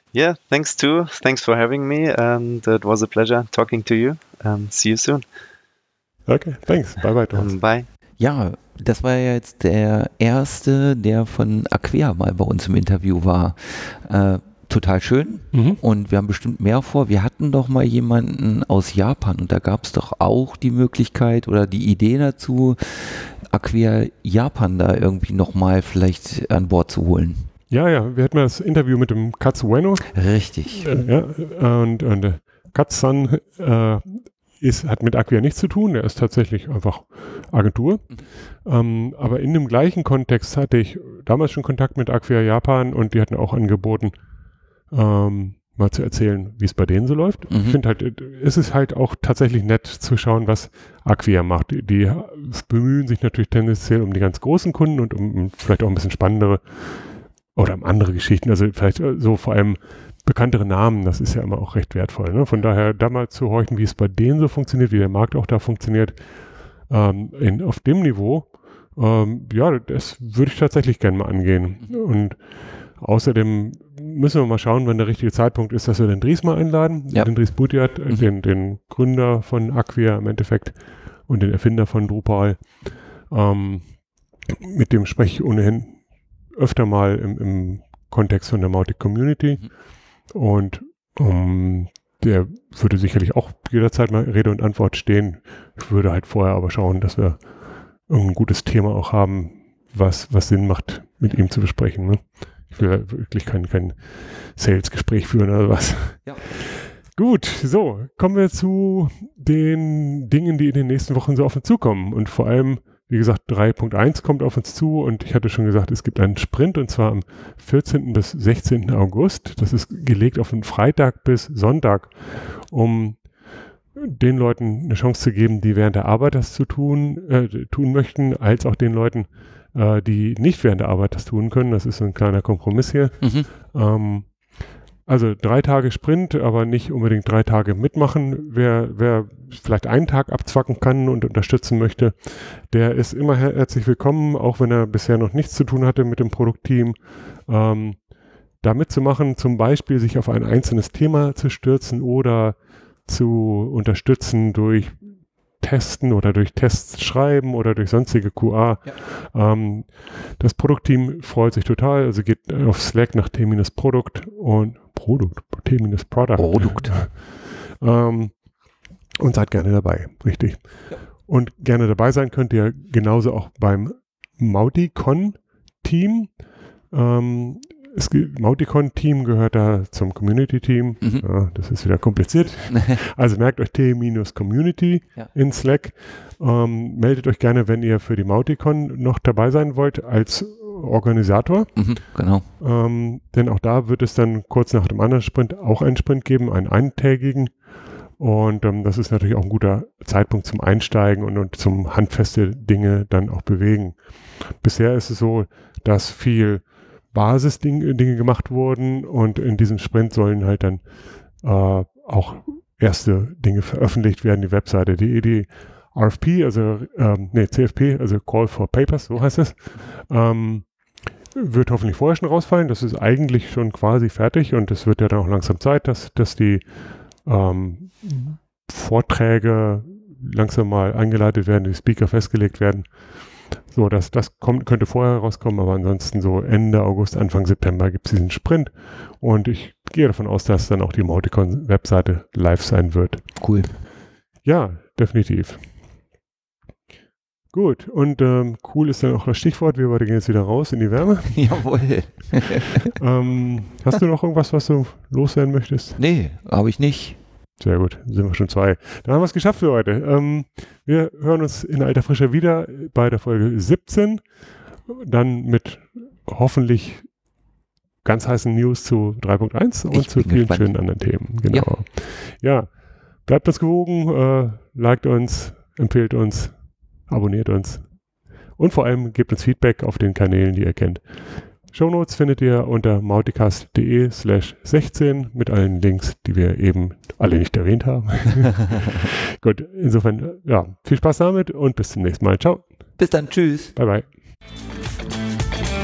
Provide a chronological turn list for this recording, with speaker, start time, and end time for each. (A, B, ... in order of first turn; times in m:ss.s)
0:00.1-0:05.2 A
0:06.3-0:07.5 B
0:07.3-0:07.9 A
0:08.2-0:27.5 C
0:15.5-0:15.8 B
0:27.7-0:44.3 B
0:30.1-0:31.1 C
0:44.8-4:03.8 B
0:47.5-0:47.8 C
1:17.1-1:18.3 C
2:13.2-2:13.5 C
2:46.4-2:47.2 C
3:01.0-3:01.8 C
3:11.8-3:12.5 C
3:39.1-3:39.9 C
4:03.4-4:03.8 C
4:04.4-4:05.7 B
4:07.5-4:12.1 B
4:11.3-4:12.9 C
4:13.0-4:16.0 B
4:16.0-4:17.2 C
4:17.6-4:27.3 B
4:28.0-4:54.1 B
4:29.9-4:31.8 C
4:53.0-4:53.8 C